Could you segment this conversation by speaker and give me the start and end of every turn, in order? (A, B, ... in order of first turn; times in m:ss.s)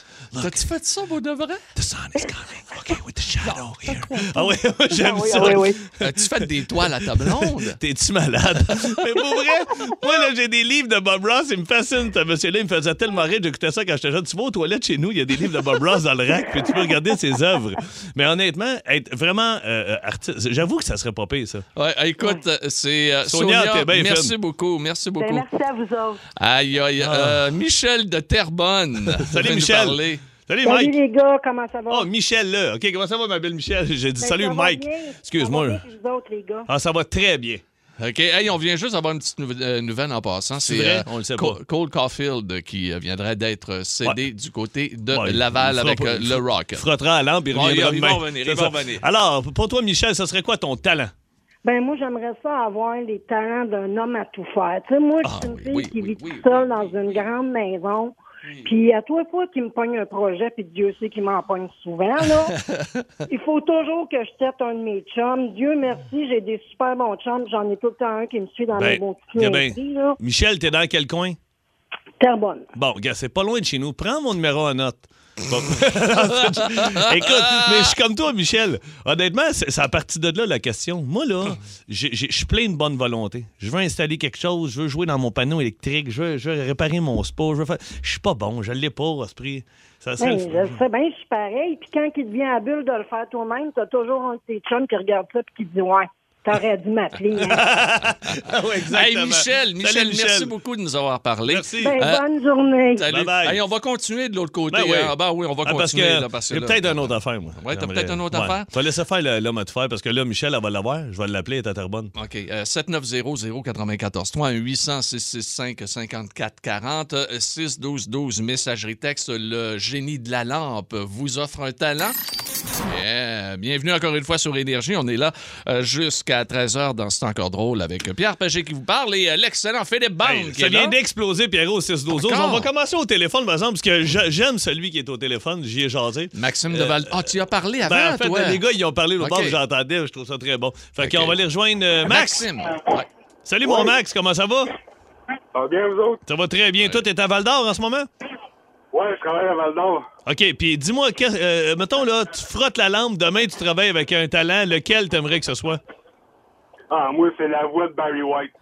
0:00.3-0:00.7 A
0:00.4-0:01.6 B
0:01.8-0:21.6 A
0:03.9-0:05.8 C
0:06.0-0:07.8 B
0:21.8-0:25.5 B
0:23.3-0:24.3 A
0:25.2-0:26.2 C
0:26.4-0:30.2 B
0:27.0-0:27.4 A
0:29.1-0:31.0 A
0:30.6-0:32.1 D
0:31.9-0:35.8 A
0:34.2-0:36.7 D
0:36.7-0:37.6 A
0:38.0-0:46.8 B
0:40.6-0:41.6 A
0:45.1-0:51.1 A
0:47.5-0:49.0 B
0:51.6-1:02.6 D
0:55.2-0:57.3 B
0:58.4-0:58.7 B
1:02.6-1:03.0 B
1:03.3-1:10.2 D
1:08.7-1:11.4 A
1:12.2-1:12.7 D
1:12.8-1:30.8 A
1:16.4-1:17.9 B
1:30.2-1:37.6 D
1:37.3-1:37.7 B
1:37.4-1:40.5 A
1:38.9-1:42.2 B
1:41.5-1:42.0 A
1:41.8-1:43.1 D
1:42.9-1:48.7 B
1:43.1-1:43.6 A
1:44.7-1:52.1 A
1:52.2-2:02.2 B
2:02.8-2:11.0 B
2:10.2-2:17.3 A
2:12.1-2:12.7 B
2:16.4-2:18.6 B
2:17.8-2:22.5 A
2:19.2-2:19.6 B
2:21.0-2:21.4 B
2:22.0-2:23.1 B
2:23.5-2:24.7 A
2:25.5-2:26.2 E
2:26.3-2:28.1 A
2:26.8-2:27.0 B
2:28.9-2:30.1 E
2:30.3-2:35.8 A
2:36.9-2:38.5 E